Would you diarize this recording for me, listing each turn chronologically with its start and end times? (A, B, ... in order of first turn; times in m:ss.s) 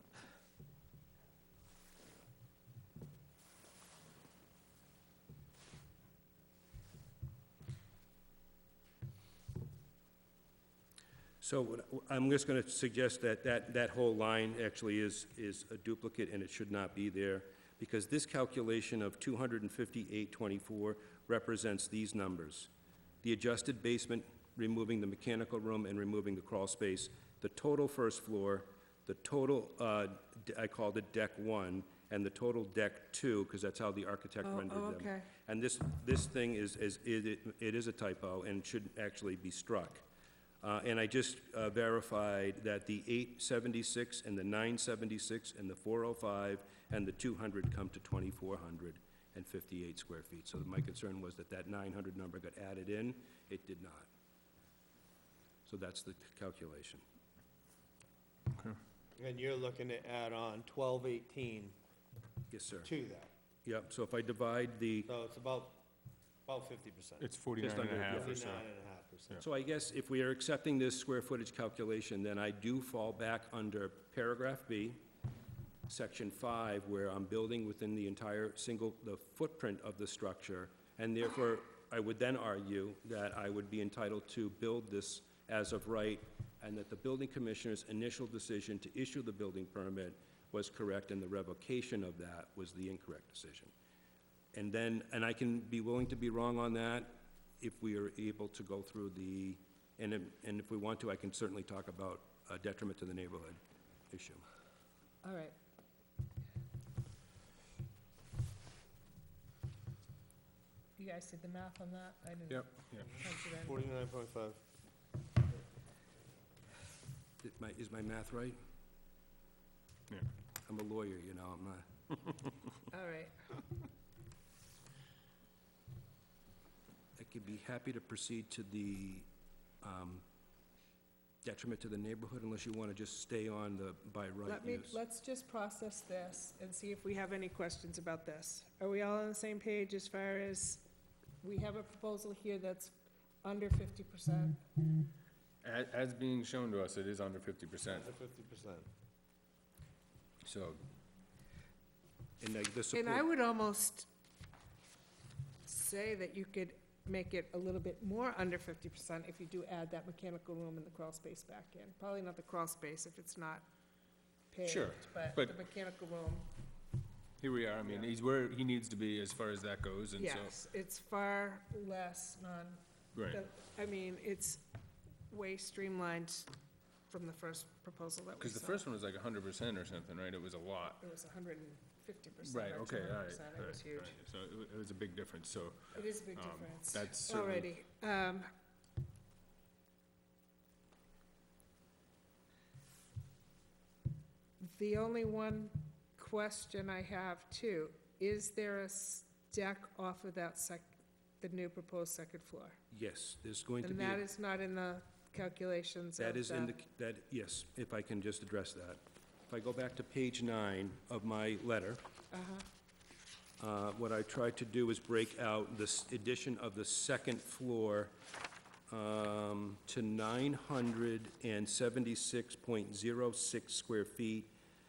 0:11.4-0:22.7 A
0:23.2-0:40.0 A
0:34.4-0:35.3 B
0:40.6-0:54.1 A
0:55.7-0:57.0 A
0:58.5-0:58.8 C
0:59.2-1:01.8 D
1:02.5-1:02.9 A
1:02.8-1:03.3 D
1:03.6-1:05.1 A
1:05.1-1:05.8 D
1:06.5-1:07.3 D
1:07.2-1:08.7 C
1:07.6-1:08.4 A
1:08.1-1:09.4 D
1:09.4-1:15.0 A
1:15.9-1:33.7 A
1:34.5-1:43.6 A
1:44.1-1:44.4 A
1:45.2-1:45.6 B
1:51.0-1:53.9 B
1:52.5-1:53.1 C
1:53.6-1:54.6 D
1:57.4-1:58.6 A
2:00.6-2:01.8 A
2:02.9-2:03.6 B
2:07.2-2:09.3 A
2:09.8-2:10.2 A
2:11.4-2:15.0 A
2:14.4-2:20.9 B
2:21.4-2:24.6 B
2:25.6-2:28.1 C
2:27.8-2:28.9 D
2:30.4-2:30.8 C
2:32.4-2:33.2 A
2:32.9-2:34.1 B
2:35.7-2:43.6 B
2:44.5-2:46.5 B
2:44.6-2:45.6 C
2:47.4-2:50.6 C
2:50.2-2:54.7 B
2:53.2-2:53.4 C
2:55.3-2:56.5 B
2:57.1-2:58.8 B
2:58.4-3:01.0 C
3:01.0-3:04.2 B
3:02.4-3:07.7 C
3:06.0-3:08.5 B
3:14.6-3:22.8 B
3:22.9-3:24.2 A
3:23.8-3:26.7 B
3:26.2-3:32.0 A
3:32.3-3:32.7 B
3:33.6-3:38.2 A
3:38.9-3:44.5 A